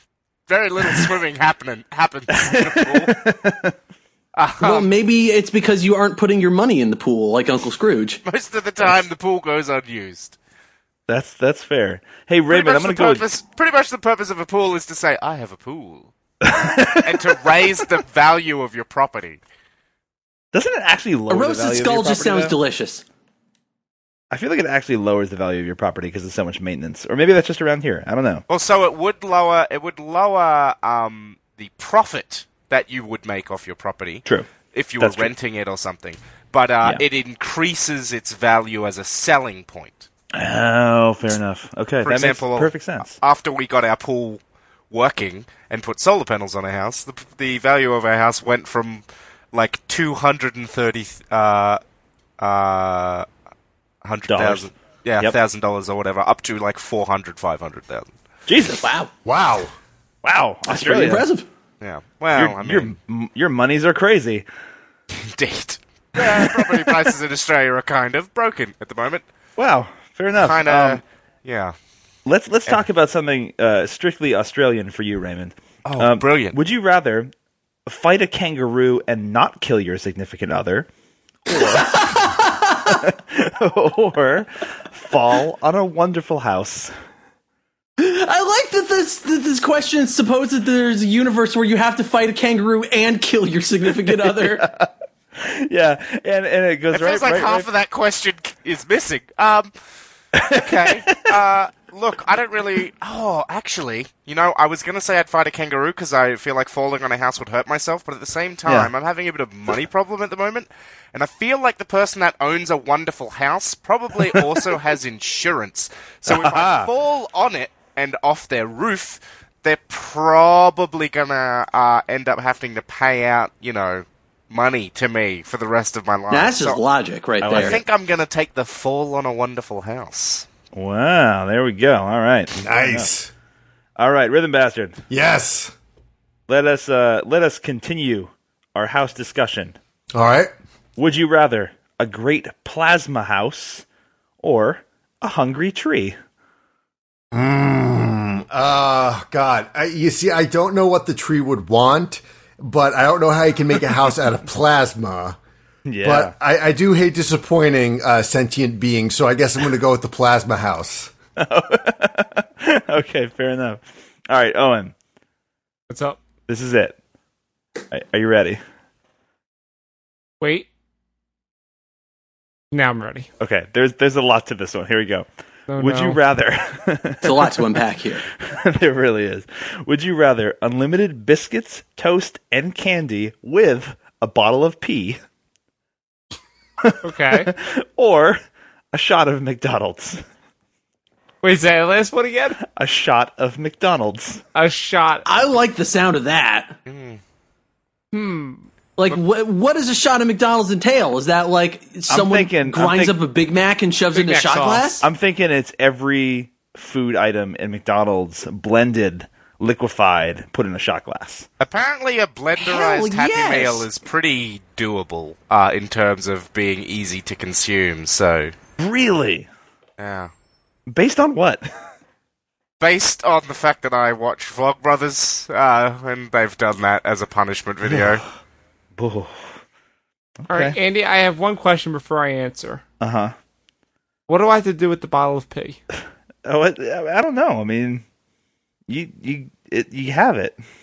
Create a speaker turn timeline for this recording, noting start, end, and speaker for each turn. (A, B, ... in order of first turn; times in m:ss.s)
0:00.5-0:03.1 A
0:02.3-0:03.8 B
0:04.4-0:04.9 A
0:04.6-0:08.2 C
0:08.2-0:10.4 A
0:11.1-0:13.2 B
0:12.5-0:16.1 A
0:16.4-0:17.6 B
0:17.0-0:19.4 A
0:20.5-0:22.6 B
0:21.3-0:23.0 C
0:24.3-0:28.4 B
0:28.5-0:40.1 A
0:34.2-0:35.3 B
0:40.3-0:43.2 B
0:42.0-0:44.4 A
0:44.9-0:51.8 A
0:52.4-0:53.3 A
0:54.0-0:58.1 A
0:54.3-0:54.7 B
0:58.5-0:58.9 B
0:58.8-0:59.1 C
0:59.2-0:59.7 D
1:00.2-1:01.3 B
1:00.7-1:01.5 C
1:01.8-1:02.9 A
1:02.4-1:04.5 B
1:05.1-1:09.2 A
1:06.2-1:06.9 B
1:09.6-1:11.0 B
1:10.4-1:11.8 A
1:12.3-1:17.3 B
1:15.8-1:16.6 A
1:17.9-1:20.9 B
1:21.5-1:22.2 B
1:21.5-1:23.0 C
1:22.9-1:26.9 B
1:28.0-1:34.7 C
1:34.0-1:37.7 B
1:36.9-1:39.7 A
1:40.3-1:41.4 B
1:40.5-2:06.8 A
1:48.7-1:48.9 B
1:54.2-1:54.6 B
1:56.3-1:56.9 B
2:06.3-2:07.8 C
2:07.4-2:07.8 B
2:07.5-2:10.5 A
2:10.7-2:13.1 B
2:12.6-2:13.3 D
2:14.0-2:15.0 B
2:15.1-2:15.7 D
2:16.5-2:19.8 B
2:20.1-2:20.5 D
2:21.0-2:23.8 B
2:24.4-2:26.2 B
2:27.3-2:35.4 D
2:35.8-2:36.4 B
2:36.0-2:41.1 D
2:41.4-2:44.9 B
2:45.9-2:46.2 E
2:46.5-2:47.0 B
2:47.9-2:48.6 B
2:50.4-2:50.7 E
2:52.7-2:53.3 E
2:53.4-2:55.3 B
2:55.7-2:56.2 E
2:55.8-2:57.8 B
2:57.2-2:58.2 C
2:58.3-3:05.2 B
3:06.8-3:08.4 B
3:07.0-3:07.5 E
3:08.9-3:10.2 B
3:11.4-3:12.6 E
3:12.6-3:14.4 B
3:14.5-3:15.3 E
3:15.2-3:16.7 C
3:16.9-3:17.2 A
3:18.1-3:18.7 E
3:19.0-3:25.0 C
3:22.1-3:23.2 B
3:24.1-3:25.0 E
3:25.0-3:31.5 B
3:31.6-3:38.5 A
3:32.6-3:33.9 C
3:38.8-3:39.5 B
3:40.0-3:40.3 A
3:40.9-3:41.7 B
3:42.8-3:48.2 A
3:49.0-3:49.6 B
3:50.4-3:50.8 B
3:50.5-3:52.8 E
3:53.0-3:53.3 B
3:54.3-3:55.8 E
3:56.4-3:58.0 B
3:58.9-4:00.6 B